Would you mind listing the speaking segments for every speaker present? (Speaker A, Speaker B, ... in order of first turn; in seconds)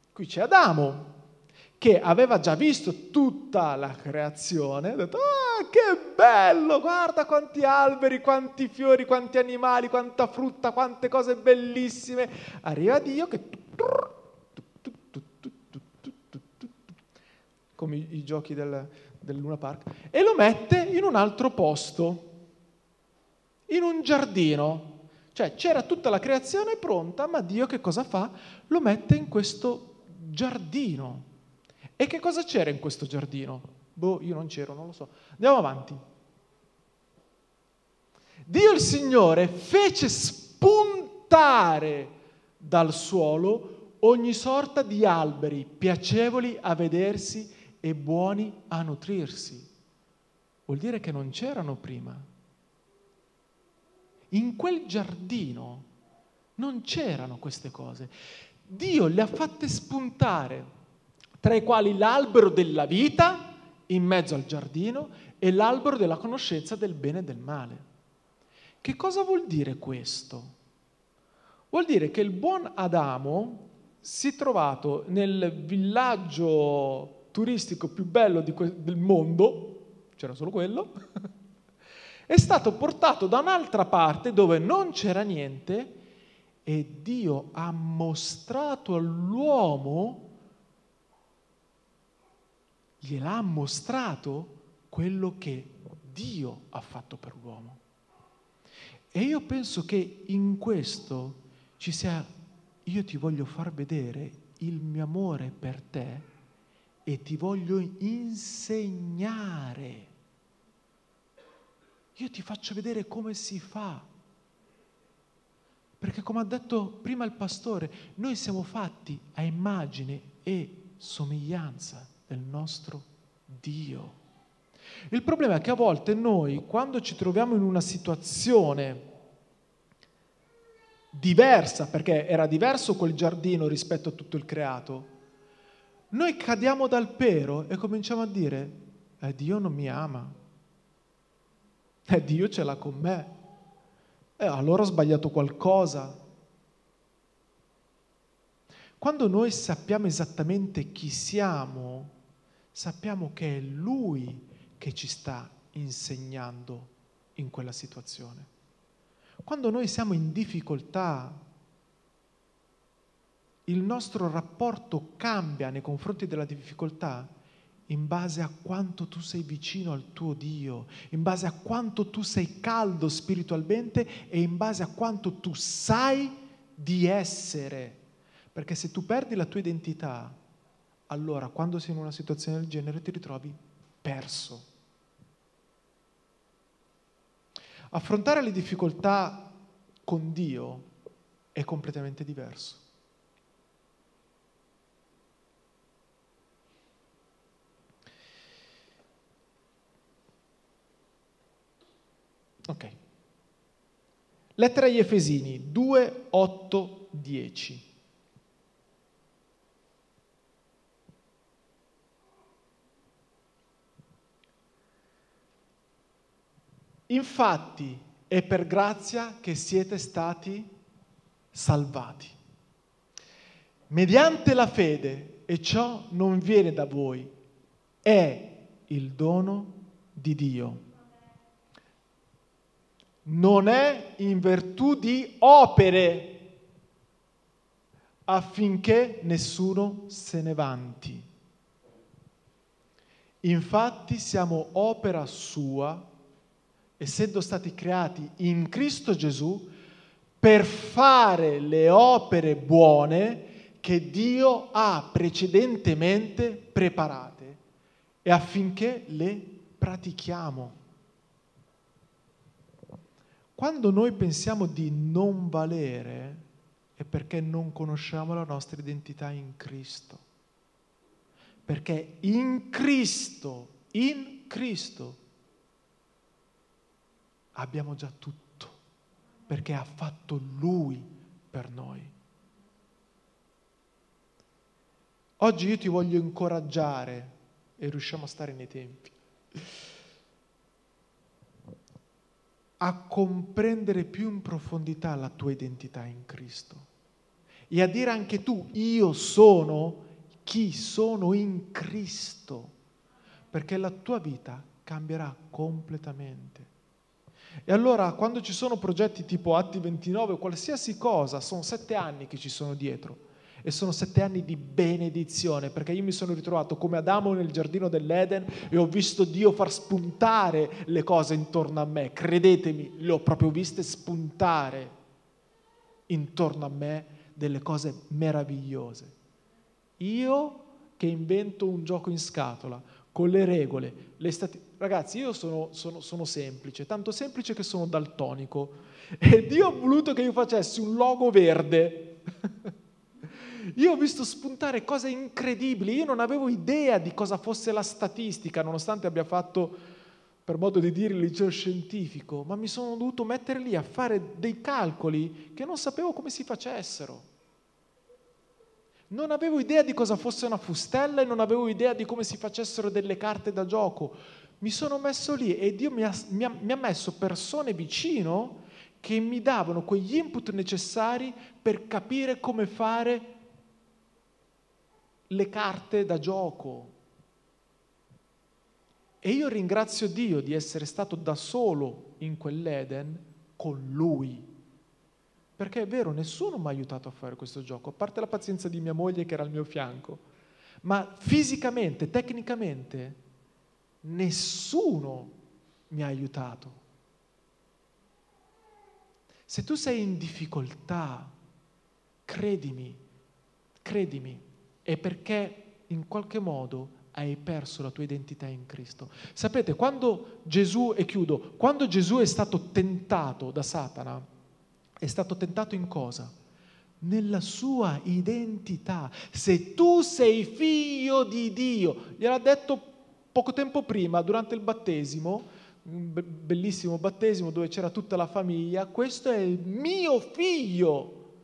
Speaker A: 0.1-1.2, 1.8-14.2, 14.8-16.8, 17.8-22.3, 23.7-31.3, 32.0-36.0, 38.5-49.7, 50.7-52.3, 54.3-55.9, 56.6-58.1, 58.6-60.7, 61.4-67.8, 68.8-70.5, 71.7-80.9, 82.3-86.0, 86.7-90.3, 93.0-97.8, 99.1-102.3, 102.8-106.3, 107.0-110.1, 112.2-114.1, 116.0-124.2, 125.1-129.1, 131.1-135.1, 136.1-140.4, 142.1-143.4, 144.4-146.2, 149.0-152.2, 152.7-158.5, 159.4-161.4, 163.7-167.3, 167.9-178.0, 178.5-180.4, 181.1-184.7, 187.9-190.9, 191.6-192.8, 202.7-202.9, 204.6-207.9, 217.1-220.7, 221.5-222.4, 223.9-227.3, 228.0-230.9, 233.2-236.5, 238.3-241.3, 243.4-246.1, 247.0-249.7, 250.4-257.6, 258.2-260.8, 263.6-266.5, 267.0-270.2, 271.7-275.2, 277.6-278.8, 279.5-282.1, 285.4-289.2, 292.8-296.9, 297.7-302.7, 303.5-306.7, 307.7-324.9, 326.1-329.2, 330.0-342.7, 343.4-349.8, 350.4-357.3, 359.1-373.3, 375.3-376.9, 379.2-384.5, 385.6-390.2, 390.8-393.2, 394.0-395.4, 395.9-396.8, 399.5-401.3, 402.3-403.0, 403.8-414.3, 415.0-416.3, 417.0-431.3